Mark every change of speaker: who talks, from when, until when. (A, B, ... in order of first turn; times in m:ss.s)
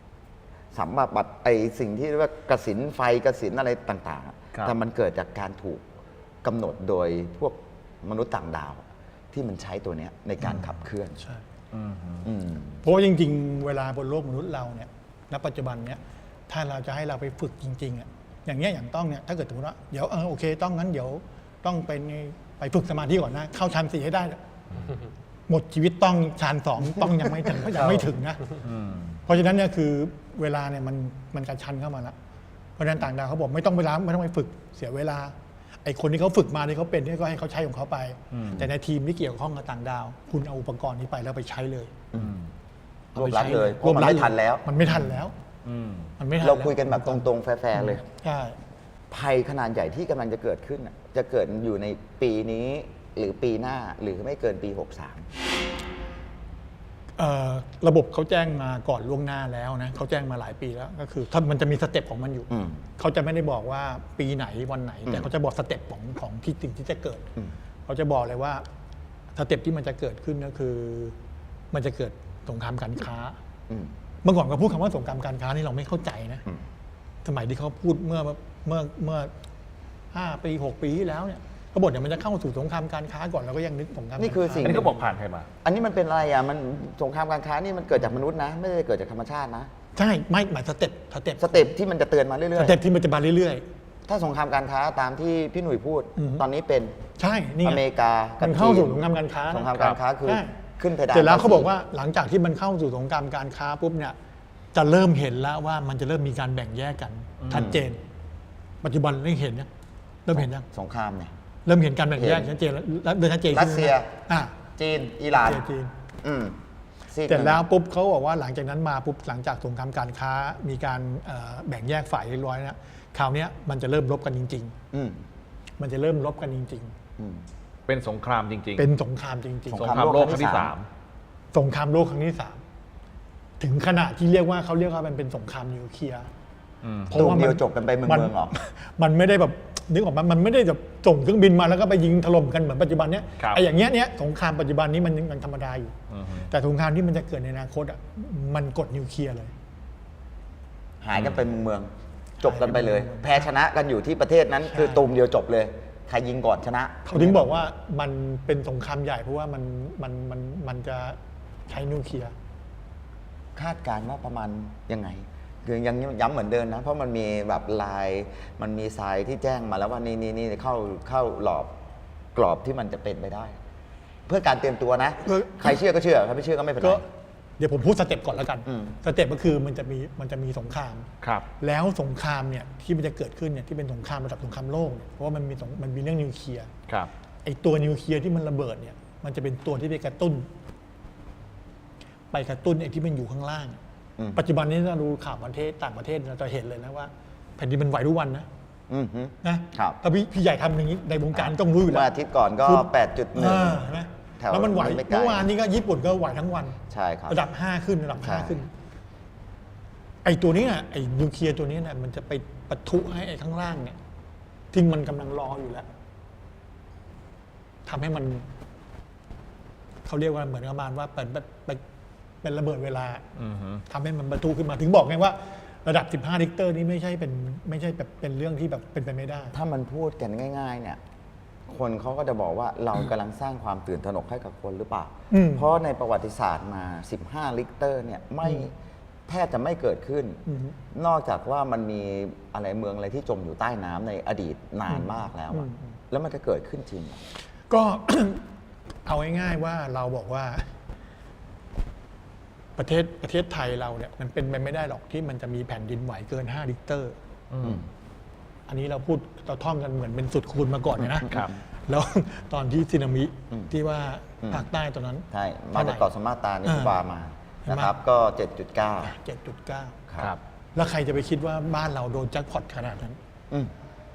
0:00.7-0:05.8 A
0:06.4-0:11.2 A
0:11.7-0:12.3 B
0:12.2-0:12.8 A
0:12.8-0:24.4 C
0:25.5-0:28.6 C
0:27.0-0:28.1 A
0:28.6-0:29.2 B
0:29.3-0:32.2 C
0:32.8-0:41.9 C
0:38.3-0:38.6 B
0:42.2-0:42.5 B
0:43.2-0:44.7 A
0:43.2-0:45.4 C
0:45.6-0:46.1 B
0:46.2-0:48.6 C
0:46.4-0:48.0 A
0:49.1-0:55.3 A
0:57.2-1:07.3 C
1:02.5-1:02.8 A
1:07.9-1:08.6 C
1:09.4-1:11.2 C
1:11.7-1:13.4 C
1:14.2-1:16.4 C
1:17.2-1:19.3 C
1:20.1-1:24.7 C
1:24.2-1:25.0 A
1:24.6-1:25.5 B
1:25.6-1:29.7 A
1:30.0-1:31.7 C
1:31.4-1:32.8 A
1:32.6-1:33.6 C
1:34.1-1:37.0 A
1:36.2-1:36.4 C
1:37.2-1:37.8 C
1:37.6-1:41.7 A
1:38.4-1:40.6 C
1:41.1-1:44.2 C
1:44.7-1:48.0 C
1:47.4-1:47.7 B
1:47.5-1:47.8 A
1:48.8-1:49.7 C
1:50.3-1:50.7 C
1:50.3-1:51.3 A
1:51.7-1:54.6 C
1:52.2-1:52.5 A
1:53.5-1:54.1 A
1:54.8-1:55.7 A
1:55.3-1:55.9 C
1:56.2-1:56.6 A
1:57.1-1:57.6 A
1:57.3-2:04.7 C
2:04.9-2:05.2 A
2:05.8-2:07.0 C
2:07.2-2:07.4 A
2:07.9-2:08.9 B
2:08.8-2:10.0 C
2:09.7-2:10.7 A
2:09.7-2:10.9 B
2:11.5-2:12.6 C
2:13.6-2:16.3 C
2:16.8-2:17.4 B
2:17.1-2:25.9 C
2:17.1-2:18.5 A
2:26.1-2:26.5 B
2:26.5-2:29.5 C
2:31.0-2:37.6 A
2:31.1-2:31.4 B
2:32.4-2:33.5 C
2:34.7-2:35.0 C
2:37.1-2:42.3 C
2:43.6-2:51.7 A
2:52.4-2:53.6 A
2:54.3-2:57.0 A
2:55.2-2:55.7 C
2:56.8-2:57.0 C
2:57.6-3:01.1 C
2:58.7-2:59.0 A
3:01.2-3:01.5 B
3:01.6-3:06.7 C
3:07.4-3:10.5 C
3:12.3-3:13.8 C
3:14.4-3:18.5 C
3:18.9-3:20.0 A
3:19.4-3:22.1 C
3:21.3-3:23.8 A
3:22.6-3:28.7 C
3:24.4-3:25.5 A
3:26.9-3:27.4 A
3:28.2-3:28.6 A
3:30.2-3:34.0 C
3:34.7-3:35.9 C
3:37.9-3:38.5 C
3:40.0-3:41.8 C
3:42.4-3:43.2 C
3:43.4-3:43.8 B
3:43.9-3:49.6 C
3:49.5-3:51.0 A
3:51.7-3:58.7 A
3:55.3-3:55.7 C
3:59.3-4:07.2 A
4:00.5-4:00.8 C
4:04.9-4:05.9 C
4:07.7-4:08.4 C
4:09.1-4:10.7 C
4:12.8-4:17.2 C
4:17.5-4:17.8 B
4:18.7-4:26.1 C
4:21.2-4:21.6 A
4:25.3-4:29.1 A
4:26.6-4:27.0 C
4:27.7-4:27.9 C
4:29.0-4:30.0 C
4:30.1-4:30.3 A
4:30.8-4:33.2 C